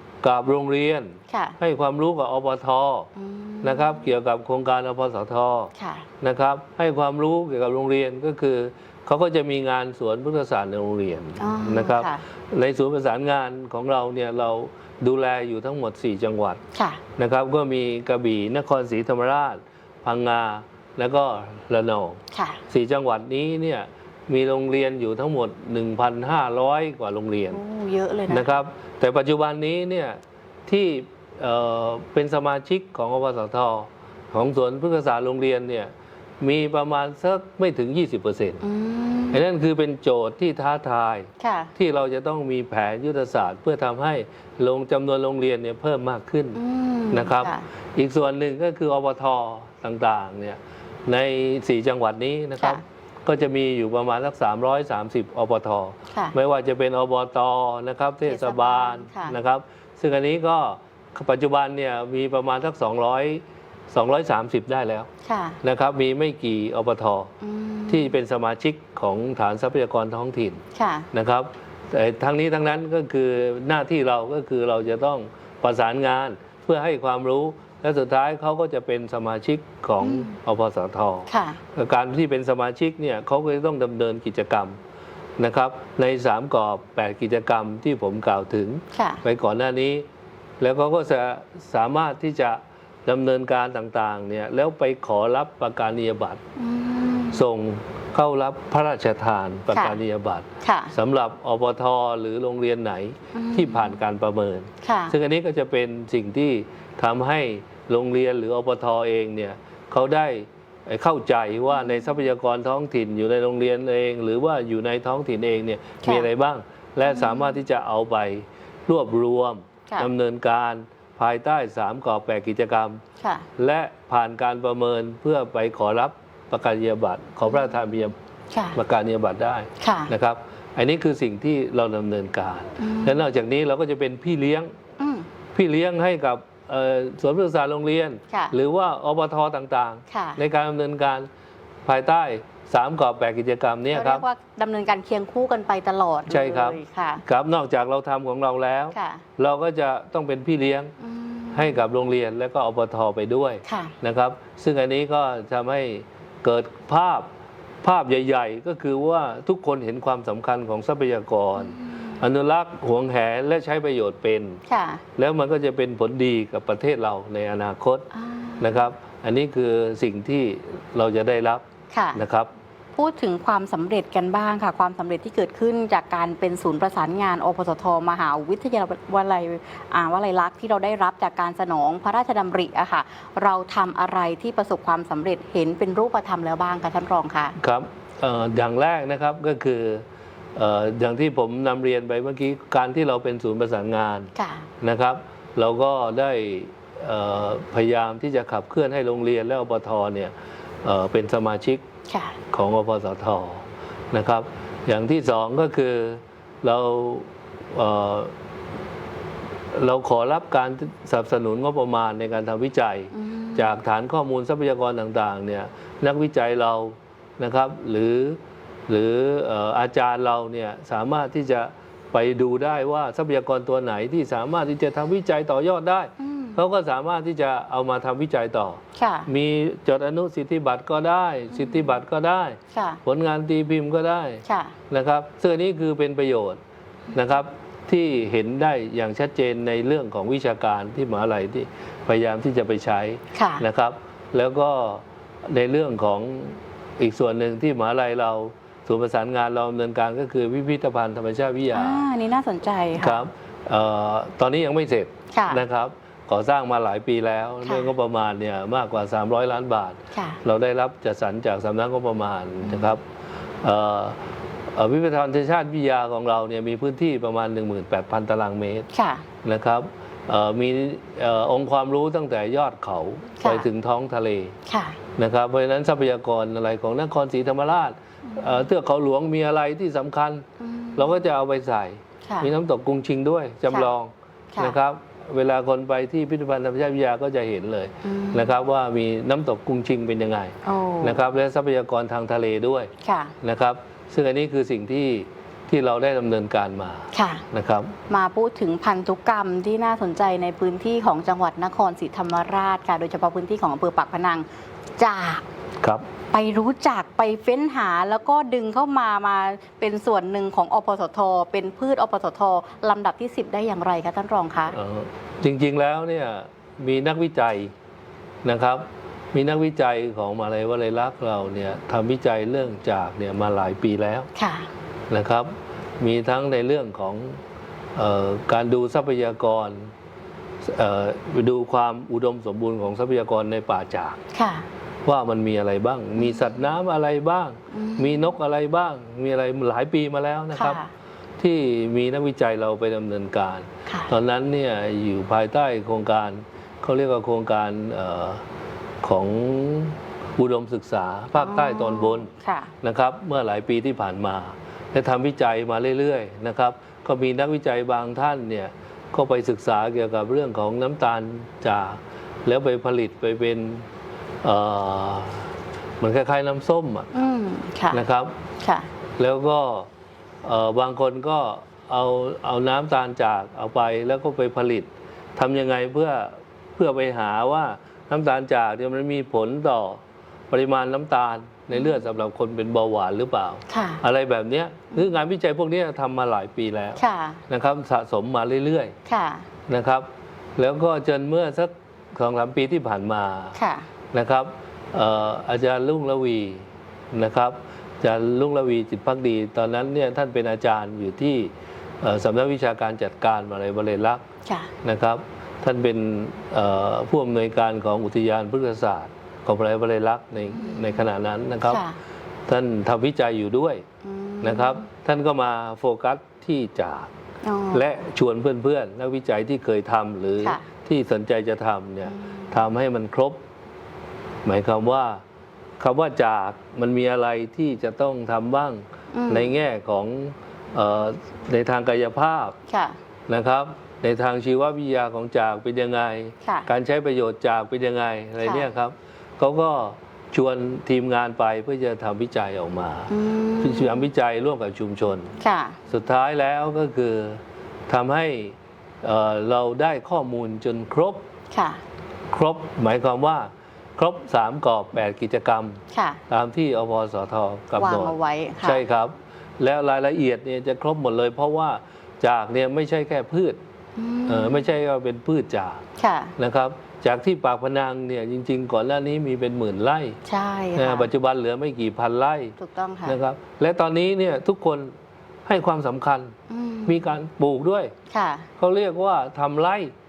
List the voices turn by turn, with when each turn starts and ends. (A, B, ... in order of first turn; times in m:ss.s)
0:00.2-0:03.1 A
0:01.3-0:01.6 B
0:03.2-0:04.0 B
0:03.6-0:16.6 A
0:05.8-0:06.0 B
0:11.4-0:12.2 B
0:16.8-0:17.0 B
0:17.2-0:27.6 A
0:22.3-0:22.6 B
0:27.5-0:28.6 B
0:28.3-0:38.6 A
0:38.6-0:39.4 B
0:39.3-0:46.6 A
0:41.4-0:41.7 B
0:46.6-0:47.6 B
0:47.1-1:05.1 A
0:58.2-0:59.4 B
1:05.3-1:05.6 B
1:05.6-1:07.3 A
1:07.4-1:08.1 B
1:07.9-1:24.8 A
1:10.8-1:11.1 B
1:20.0-1:20.3 B
1:21.3-1:21.6 B
1:25.4-1:30.1 A
1:28.9-1:29.2 B
1:30.6-1:36.4 A
1:36.6-1:37.4 B
1:37.3-2:03.0 A
1:39.7-1:40.0 B
1:40.6-1:40.9 B
1:43.4-1:44.0 B
1:44.8-1:45.1 B
1:57.1-1:57.5 B
2:03.2-2:03.5 B
2:03.6-2:08.2 A
2:08.5-2:08.8 B
2:08.7-2:14.7 A
2:09.8-2:10.1 B
2:12.8-2:13.2 B
2:15.0-2:15.3 B
2:15.5-2:21.3 A
2:20.1-2:20.4 B
2:21.9-2:24.2 A
2:23.9-2:27.2 B
2:26.3-2:31.0 A
2:28.9-2:29.2 B
2:31.0-2:31.8 B
2:31.5-2:37.3 A
2:33.7-2:33.9 B
2:37.8-2:44.6 A
2:41.7-2:42.0 B
2:44.7-2:45.0 B
2:45.2-2:51.6 A
2:48.1-2:48.9 B
2:51.9-2:52.2 B
2:52.2-2:52.5 A
2:53.0-3:07.6 B
3:07.6-3:20.3 A
3:14.4-3:14.7 B
3:20.8-3:21.8 A
3:22.1-3:22.4 B
3:22.5-3:28.3 A
3:29.7-3:56.6 A
3:33.1-3:33.7 B
3:46.2-3:46.6 B
3:49.0-3:49.3 B
3:51.5-3:51.8 B
3:52.7-3:53.0 B
3:54.5-3:54.7 B
3:57.1-4:12.1 A
4:03.4-4:03.6 B
4:11.7-4:13.3 B
4:13.0-4:23.0 A
4:15.3-4:15.6 B
4:17.6-4:17.9 B
4:20.1-4:20.4 B
4:23.6-4:24.2 A
4:24.7-4:28.9 A
4:28.9-4:29.2 B
4:29.4-4:34.6 A
4:33.4-4:33.7 B
4:34.7-4:35.0 B
4:35.2-4:40.4 A
4:40.6-4:41.1 B
4:41.0-4:57.9 A
4:48.0-4:48.5 B
4:50.6-4:51.2 B
4:53.0-4:53.3 B
4:57.1-4:57.4 B
4:58.1-5:04.5 B
5:05.0-5:05.4 B
5:06.3-5:14.8 B
5:14.7-5:17.7 A
5:18.4-5:24.3 A
5:24.4-5:24.7 B
5:25.1-5:27.4 A
5:28.0-5:29.9 A
5:30.6-5:34.2 A
5:34.3-5:34.7 B
5:35.0-5:40.8 A
5:37.7-5:38.3 B
5:40.6-5:40.9 B
5:41.4-5:48.4 A
5:43.9-5:44.1 B
5:49.0-5:52.3 A
5:51.4-5:52.7 B
5:52.8-6:03.9 A
6:04.4-6:05.5 A
6:06.0-6:07.1 A
6:07.1-6:08.0 B
6:07.9-6:08.3 A
6:08.6-6:08.9 B
6:09.2-6:09.9 A
6:10.4-6:20.0 A
6:20.5-6:28.9 A
6:23.7-6:24.0 B
6:27.0-6:27.4 B
6:29.1-6:29.5 B
6:29.7-6:33.6 A
6:33.6-6:33.9 B
6:34.1-6:41.5 A
6:42.0-6:44.2 A
6:44.8-6:51.9 A
6:51.6-6:52.0 B
6:52.5-6:53.8 A
6:54.0-6:54.8 B
6:54.4-6:57.1 A
6:57.4-6:57.9 B
6:57.7-7:03.4 A
7:02.1-7:02.6 B
7:04.4-7:05.2 A
7:05.8-7:12.6 A
7:09.1-7:09.5 B
7:12.7-7:13.0 B
7:13.3-7:25.3 A
7:18.4-7:18.7 B
7:23.1-7:24.0 B
7:25.4-7:25.8 B
7:25.9-7:31.2 A
7:31.5-7:31.8 B
7:32.3-7:43.6 A
7:35.9-7:36.2 B
7:37.8-7:38.8 B
7:44.0-7:44.7 B
7:44.3-7:45.8 A
7:46.0-7:46.3 B
7:46.4-7:50.2 A
7:50.3-7:51.1 B
7:50.8-7:54.9 A
7:52.6-7:53.2 B
7:55.5-7:56.4 A
7:56.5-7:57.0 B
7:56.9-7:57.9 A
7:58.1-7:58.5 B
7:58.6-7:59.9 A